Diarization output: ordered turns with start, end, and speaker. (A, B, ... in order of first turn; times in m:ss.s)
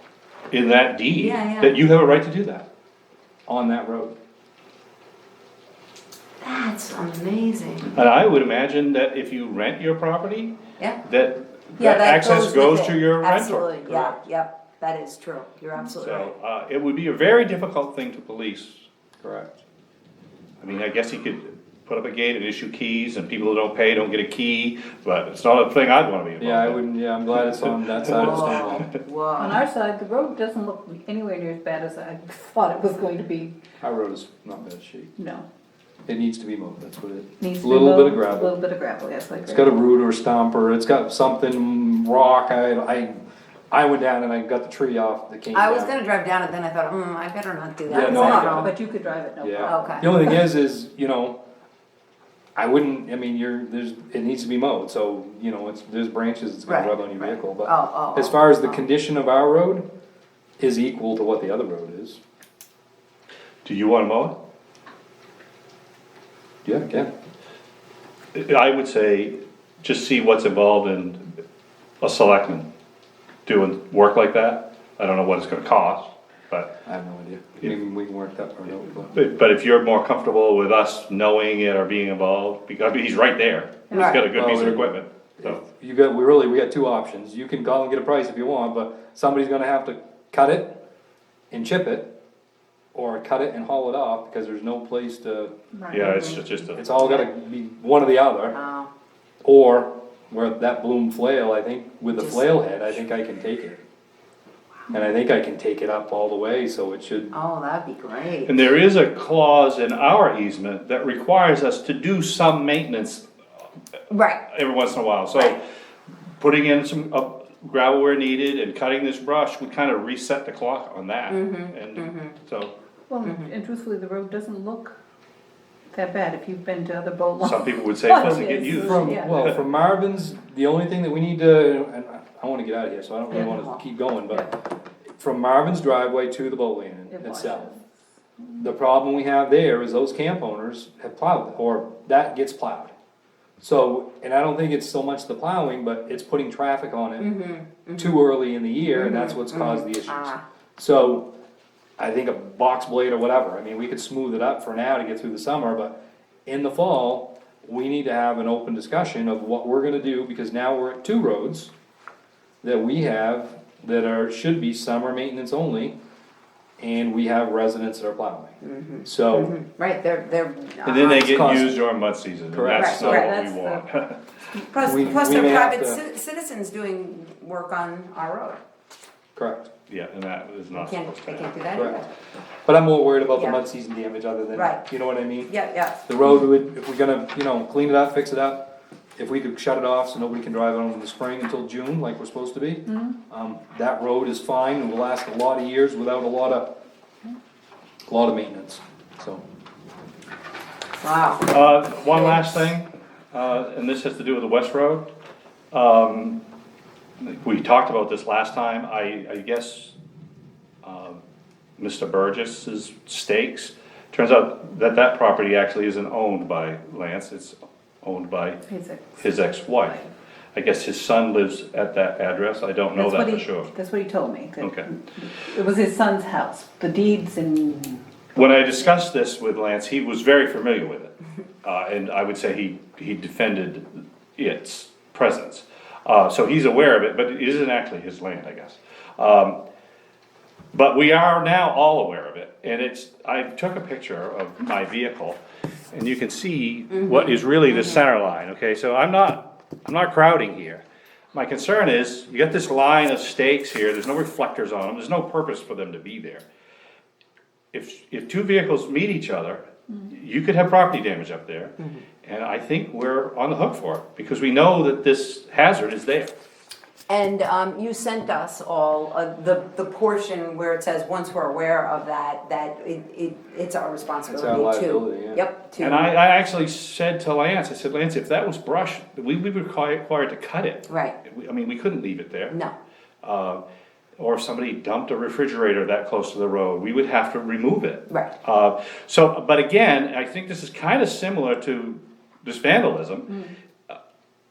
0:00.5-0:02.6 A
0:01.2-0:01.8 B
0:03.5-0:04.1 C
0:06.4-0:08.0 B
0:07.9-0:14.2 A
0:11.8-0:16.3 B
0:16.0-0:18.8 A
0:19.2-0:19.6 C
0:20.6-0:26.8 A
0:26.4-0:28.9 C
0:27.4-0:28.8 A
0:28.0-0:29.6 B
0:29.4-0:33.6 D
0:33.8-0:35.1 C
0:35.2-0:35.4 D
0:36.1-0:38.5 C
0:37.4-0:39.8 D
0:39.4-0:45.9 C
0:45.5-0:48.7 B
0:47.9-0:48.7 C
0:47.9-0:50.4 D
0:49.4-0:51.4 C
0:49.6-0:50.1 B
0:52.6-0:59.8 C
0:56.6-0:58.8 B
1:00.6-1:02.2 C
1:03.6-1:04.3 A
1:06.6-1:07.1 C
1:08.3-1:11.3 A
1:12.0-1:12.6 A
1:13.4-1:16.7 A
1:16.8-1:19.2 C
1:19.1-1:25.6 A
1:23.9-1:24.2 D
1:23.9-1:24.3 B
1:24.2-1:30.8 C
1:31.5-1:32.1 C
1:32.9-1:35.5 C
1:35.7-1:36.4 D
1:35.9-1:36.8 A
1:36.7-1:38.6 C
1:37.0-1:37.3 B
1:38.5-1:38.9 B
1:39.4-1:43.8 C
1:42.2-1:42.9 B
1:44.9-1:47.3 C
1:47.3-1:48.7 B
1:48.4-1:53.2 A
1:54.1-1:54.4 B
1:54.5-1:55.6 A
1:56.4-2:02.7 A
2:01.3-2:02.4 B
2:03.1-2:05.0 D
2:03.2-2:03.5 B
2:05.9-2:09.3 D
2:07.4-2:09.6 A
2:08.8-2:14.5 C
2:13.3-2:13.8 B
2:15.2-2:17.7 C
2:17.1-2:17.8 D
2:18.6-2:22.9 C
2:23.6-2:27.3 C
2:27.2-2:28.2 B
2:28.0-2:31.3 C
2:28.8-2:30.4 B
2:32.0-2:41.7 C
2:42.6-2:45.9 C
2:46.8-2:49.5 C
2:48.6-2:51.6 B
2:50.8-2:54.2 A
2:51.2-2:51.8 C
2:52.5-2:53.3 C
2:52.8-2:53.4 B
2:53.0-2:53.9 D
2:54.7-2:58.6 B
2:54.8-2:56.0 C
2:59.4-2:59.7 C
2:59.9-3:01.5 A
3:00.7-3:02.1 B
3:01.7-3:02.0 C
3:02.6-3:05.5 C
3:03.3-3:03.6 B
3:04.5-3:04.9 B
3:05.5-3:06.0 B
3:06.0-3:08.6 C
3:09.2-3:16.7 C
3:12.9-3:13.2 D
3:18.1-3:19.4 C
3:21.0-3:21.5 B
3:21.5-3:25.1 A
3:22.1-3:22.6 B
3:25.7-3:26.4 A
3:27.2-3:29.9 A
3:30.8-3:31.2 A
3:31.8-3:38.6 A
3:38.7-3:40.1 D
3:39.2-3:40.0 A
3:40.5-3:43.7 A
3:42.9-3:48.0 D
3:44.6-3:44.9 A
3:48.3-3:59.6 A
4:00.7-4:05.4 A
4:05.9-4:10.8 A
4:06.9-4:08.0 B
4:11.3-4:16.4 A
4:17.7-4:26.3 A
4:21.8-4:22.0 B
4:27.1-4:36.1 B
4:34.3-4:35.4 C
4:35.8-4:42.6 A
4:40.9-4:41.2 B
4:43.2-4:43.6 A
4:44.2-4:53.3 A
4:53.3-4:53.5 D